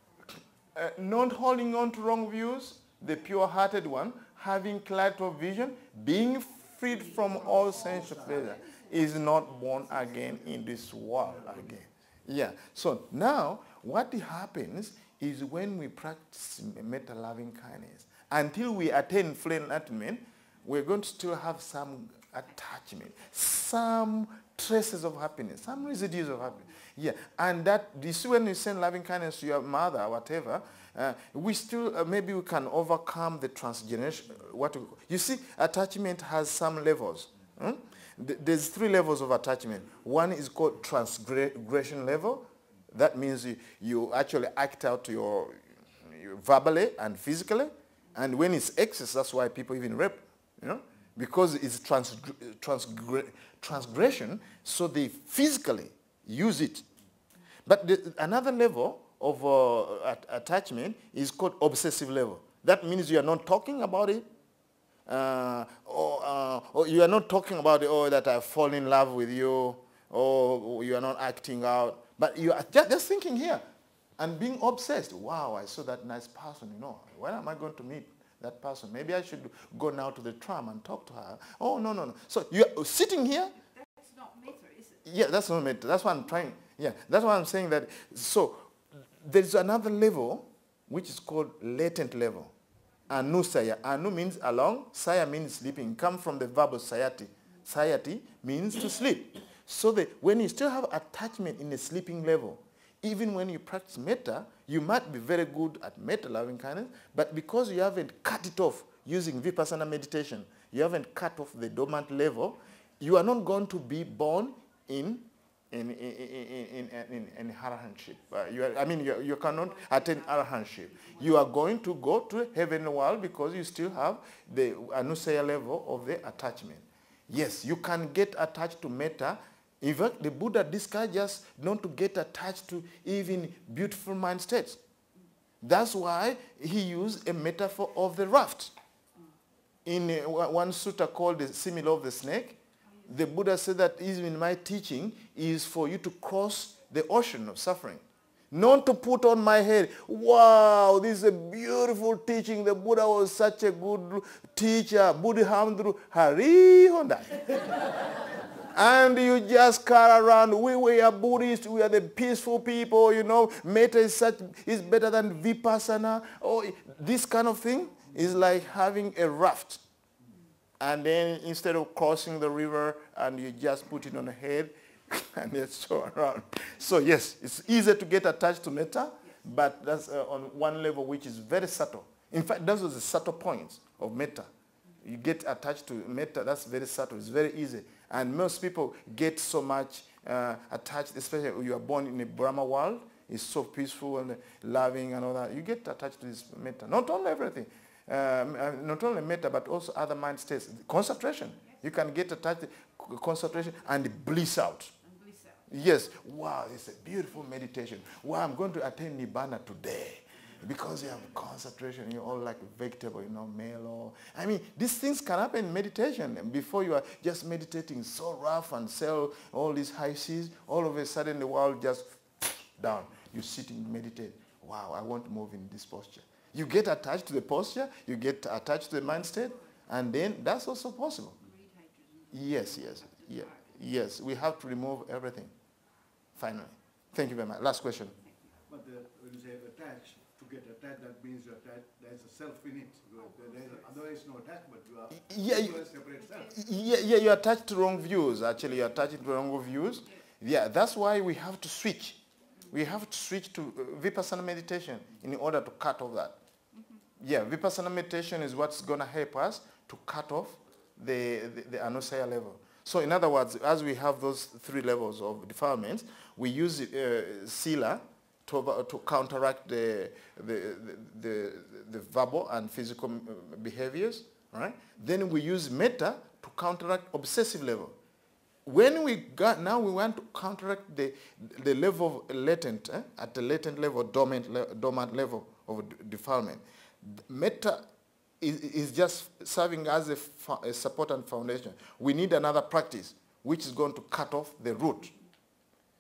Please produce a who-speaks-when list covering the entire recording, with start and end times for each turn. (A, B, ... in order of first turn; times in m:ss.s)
0:00.7-0:56.8 A
0:07.5-0:08.5 B
0:07.5-0:08.9 C
0:11.2-0:11.8 B
0:57.7-1:04.3 A
1:05.1-1:13.6 A
1:14.2-1:23.6 A
1:23.6-1:25.0 C
1:25.0-1:32.5 A
1:33.1-2:14.8 A
1:59.6-2:01.5 C
2:15.6-2:18.7 A
2:19.8-2:37.9 A
2:22.8-2:23.1 C
2:38.7-2:49.8 A
2:50.8-3:04.5 A
3:05.0-3:24.9 A
3:25.0-3:25.7 C
3:25.7-3:51.4 A
3:51.4-3:53.7 C
3:52.3-3:55.5 A
3:56.4-3:58.1 A
3:58.2-3:58.6 C
3:58.7-4:06.6 B
4:05.1-4:05.9 A
4:06.4-4:12.2 A
4:12.7-4:16.4 A
4:16.7-4:17.0 C
4:17.2-4:38.0 A
4:38.7-4:47.9 A
4:48.4-4:55.1 A